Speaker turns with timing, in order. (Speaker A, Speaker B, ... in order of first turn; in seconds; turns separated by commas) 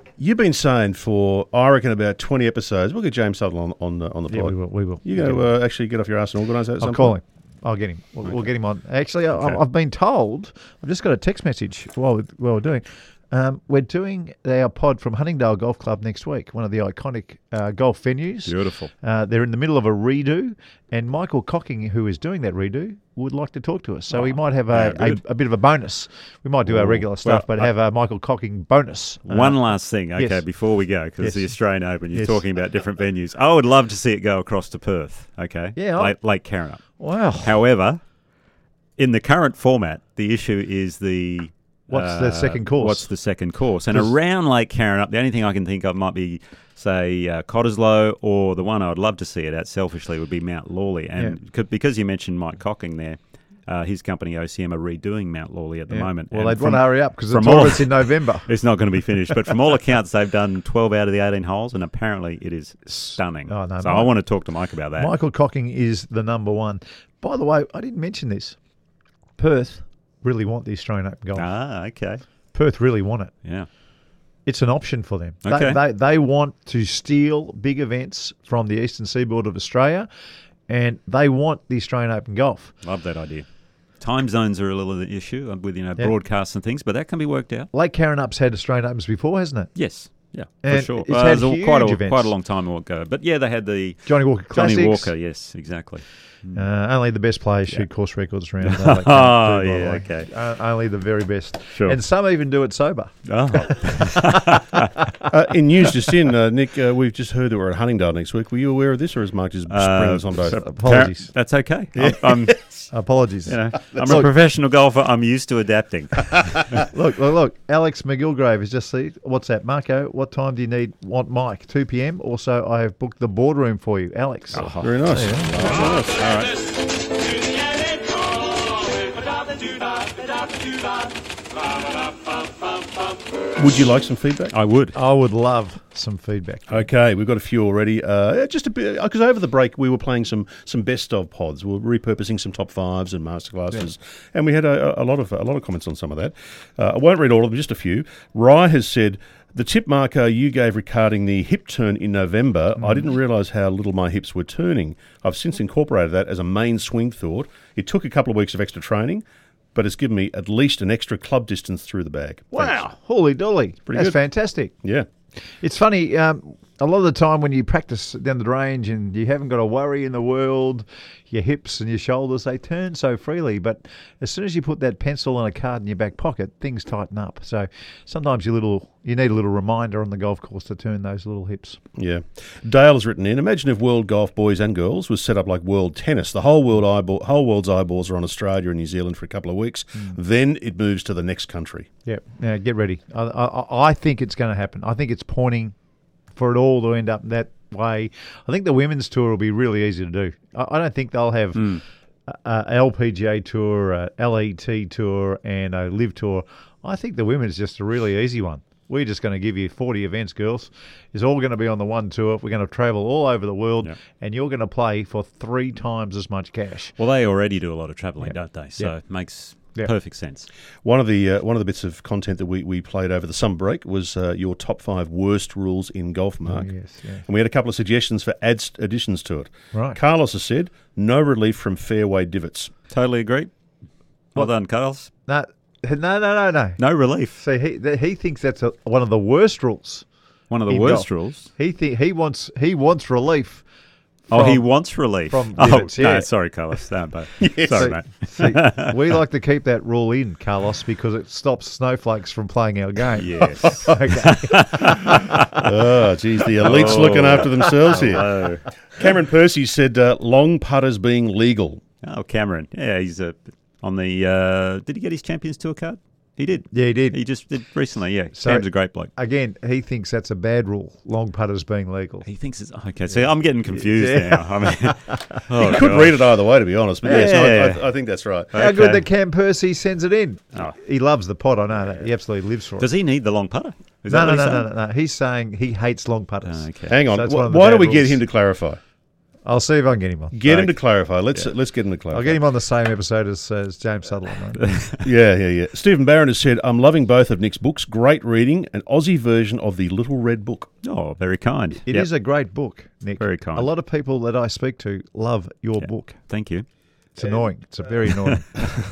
Speaker A: 0.2-7.1, Speaker B: 4.3-5.4, Speaker B: 6.8-29.6, Speaker C: 18.4-18.9, Speaker C: 24.1-25.2, Speaker C: 26.7-27.7, Speaker C: 29.3-36.8, Speaker B: 30.1-30.4, Speaker B: 31.2-31.5, Speaker B: 32.1-32.4, Speaker B: 35.8-36.1, Speaker B: 37.0-37.5, Speaker C: 37.4-38.0, Speaker C: 39.0-65.1, Speaker B: 41.9-43.1, Speaker B: 55.9-58.5, Speaker B: 63.0-64.1, Speaker B: 65.0-68.5, Speaker B: 69.4-71.5, Speaker C: 71.3-72.2, Speaker B: 72.5-73.3, Speaker B: 74.5-80.1, Speaker C: 75.4-75.8, Speaker B: 80.7-82.7, Speaker C: 82.8-83.4, Speaker C: 84.0-87.7, Speaker B: 87.7-89.7, Speaker C: 89.8-96.6, Speaker B: 90.6-92.3, Speaker B: 94.0-95.1, Speaker B: 96.5-105.3, Speaker C: 98.6-100.3, Speaker C: 103.2-105.0, Speaker A: 105.3-110.6, Speaker C: 109.7-112.9, Speaker B: 110.5-111.3, Speaker B: 112.0-114.3, Speaker C: 113.5-116.8, Speaker B: 116.9-125.5, Speaker C: 124.5-126.6, Speaker A: 124.8-126.2, Speaker A: 133.6-134.5, Speaker C: 134.5-134.9, Speaker B: 134.9-136.9, Speaker A: 136.7-162.8, Speaker B: 152.8-153.1, Speaker B: 162.5-164.7, Speaker A: 163.9-164.2, Speaker B: 165.5-181.8, Speaker A: 182.0-191.9, Speaker B: 192.1-195.7, Speaker B: 196.3-216.9, Speaker C: 201.6-201.8, Speaker C: 217.0-220.5, Speaker B: 218.2-218.9, Speaker A: 220.8-226.7, Speaker B: 226.4-227.2, Speaker A: 227.2-232.7, Speaker B: 229.7-230.0, Speaker C: 232.9-233.5, Speaker C: 234.3-235.1, Speaker B: 235.2-236.8, Speaker C: 236.8-237.4, Speaker B: 237.3-240.1, Speaker C: 240.5-241.5, Speaker B: 240.7-243.6, Speaker B: 244.3-244.7, Speaker C: 244.3-249.0, Speaker B: 245.3-246.3, Speaker A: 247.4-247.9, Speaker B: 247.7-255.6, Speaker C: 253.2-255.7, Speaker A: 255.6-258.3, Speaker C: 256.5-258.7, Speaker A: 259.0-261.8, Speaker C: 262.0-269.1, Speaker B: 266.7-267.2, Speaker B: 268.3-272.2, Speaker C: 272.2-276.3, Speaker B: 273.7-275.6, Speaker A: 275.6-278.5, Speaker C: 277.0-277.8, Speaker B: 277.0-277.3, Speaker C: 278.5-279.0, Speaker B: 278.5-282.9, Speaker C: 282.8-284.7, Speaker B: 284.1-288.2, Speaker C: 286.4-287.0, Speaker A: 286.9-288.8, Speaker B: 289.4-290.4, Speaker A: 290.3-292.4, Speaker C: 290.4-290.7, Speaker B: 292.1-294.6, Speaker C: 294.5-295.0, Speaker A: 295.0-300.7, Speaker C: 300.8-302.1, Speaker B: 301.9-306.2, Speaker C: 303.2-303.7, Speaker C: 306.3-306.6, Speaker B: 307.1-308.7